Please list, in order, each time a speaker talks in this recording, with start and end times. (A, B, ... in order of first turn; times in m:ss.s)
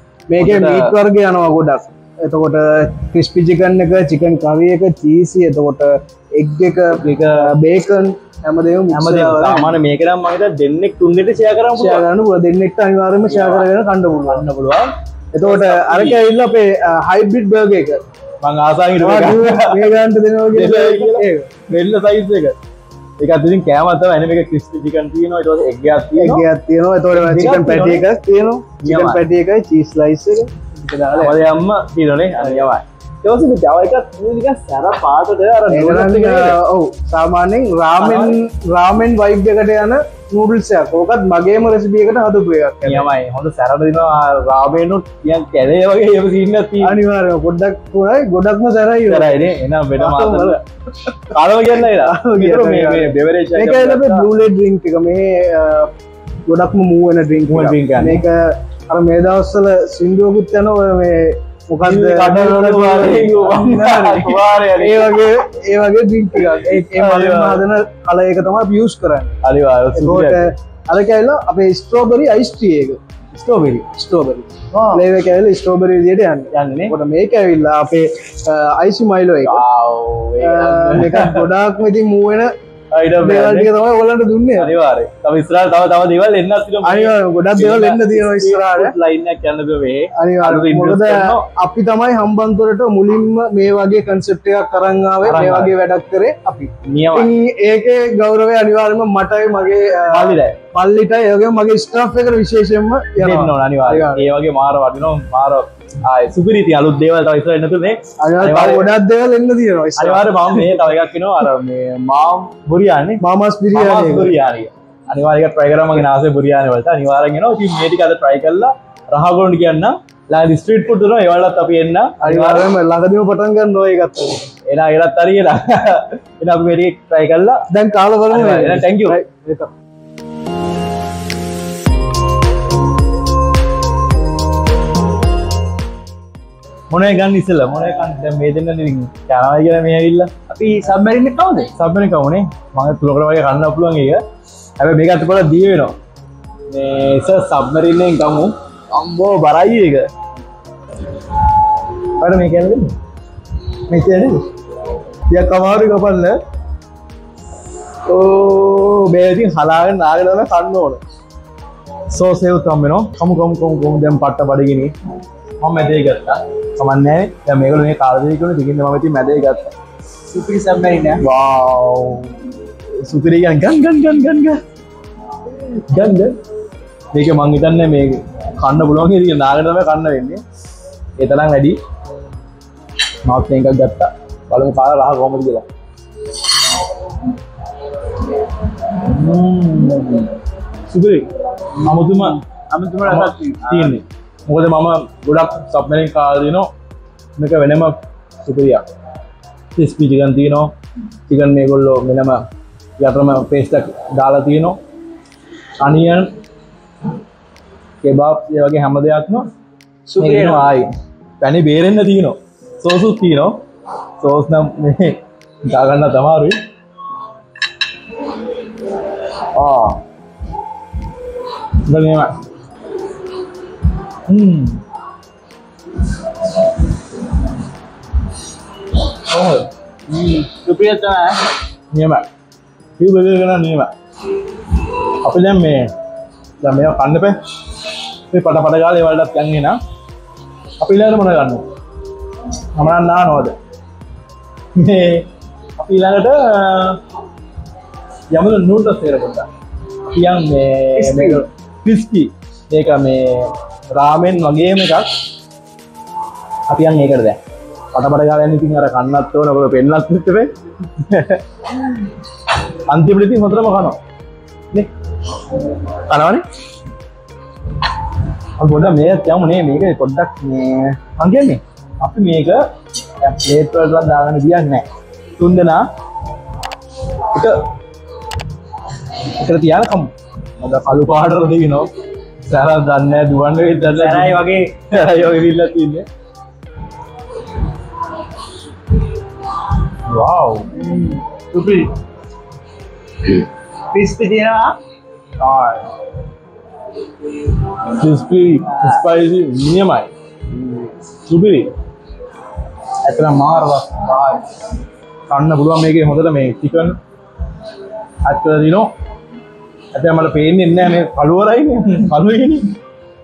0:00.3-0:09.8 A
0:00.4-0:00.9 B
0:06.9-0:07.5 B
0:08.9-0:12.0 B
0:11.7-0:14.4 A
0:13.2-0:13.7 B
0:14.3-0:16.2 B
0:15.3-0:18.0 A
0:18.4-0:19.9 B
0:19.0-0:21.5 A
0:20.5-0:22.6 B
0:23.2-0:26.4 B
0:26.2-0:31.4 A
0:27.1-0:28.0 B
0:28.8-0:29.2 B
0:31.2-0:36.6 B
0:35.7-0:43.1 A
0:38.0-0:38.4 B
0:42.8-0:47.0 B
0:46.8-0:50.6 A
0:49.0-0:50.6 B
0:51.3-0:54.3 B
0:51.8-0:55.9 A
0:56.5-1:09.4 A
0:57.4-0:58.2 B
1:01.8-1:05.3 B
1:06.6-1:07.6 B
1:09.4-1:10.5 B
1:09.9-1:13.0 A
1:13.4-1:13.7 B
1:13.6-1:19.6 A
1:14.7-1:15.0 B
1:16.5-1:16.9 B
1:19.4-1:21.5 B
1:20.4-1:22.5 A
1:22.9-1:23.7 B
1:23.2-1:24.7 A
1:24.5-1:31.4 B
1:26.8-1:29.0 A
1:30.1-1:44.3 A
1:35.2-1:35.8 B
1:36.8-1:37.3 B
1:40.1-1:40.6 B
1:43.2-1:49.0 B
1:48.2-1:50.7 A
1:50.0-1:53.2 B
1:53.2-1:54.3 A
1:53.7-2:02.7 B
2:02.2-2:04.5 A
2:04.6-2:07.6 B
2:07.7-2:09.7 A
2:08.3-2:09.2 B
2:16.9-2:20.3 B
2:20.5-2:21.7 C
2:21.8-2:24.2 B
2:24.8-2:25.9 B
2:26.7-2:30.0 B
2:32.2-2:32.9 B
2:33.9-2:34.4 B
2:35.3-2:36.4 B
2:38.1-2:41.0 B
2:42.1-2:44.9 B
2:45.6-2:49.7 B
2:50.3-2:51.2 C
2:51.2-2:54.6 B
2:55.5-2:56.4 B
2:57.1-3:00.4 B
3:01.2-3:01.8 B
3:03.2-3:05.6 B
3:08.7-3:12.4 B
3:12.0-3:14.0 C
3:13.0-3:16.7 B
3:17.4-3:18.8 B
3:19.8-3:20.7 B
3:21.3-3:22.4 B
3:23.0-3:24.8 B
3:25.8-3:26.3 B
3:28.0-3:29.5 B
3:30.1-3:30.7 C
3:30.2-3:30.9 B
3:31.4-3:33.6 B
3:34.2-3:36.6 B
3:39.5-3:40.0 B
3:41.8-3:42.3 B
3:44.3-3:44.8 B
3:49.1-3:49.7 B
3:50.1-3:51.4 C
3:51.9-3:52.3 B
3:53.0-3:53.9 B
3:54.9-3:55.9 B
3:56.6-3:59.8 B
4:00.8-4:01.6 B
4:02.7-4:03.5 B
4:04.7-4:07.0 B
4:08.3-4:09.5 B
4:10.1-4:15.1 B
4:11.0-4:11.4 C
4:16.7-4:17.4 B
4:17.9-4:22.1 B
4:22.9-4:24.0 B
4:25.6-4:26.4 B
4:28.6-4:32.6 B
4:33.2-4:34.8 B
4:35.4-4:35.8 B
4:37.3-4:37.6 B
4:39.2-4:41.9 B
4:42.4-4:46.0 B
4:43.9-4:44.8 C
4:50.1-4:50.7 B
4:50.8-4:51.9 C
4:53.9-4:54.8 C
4:55.4-4:55.9 B
4:57.6-5:01.7 B
5:03.0-5:04.5 B
5:05.3-5:07.0 B
5:08.2-5:08.9 B
5:09.9-5:12.8 B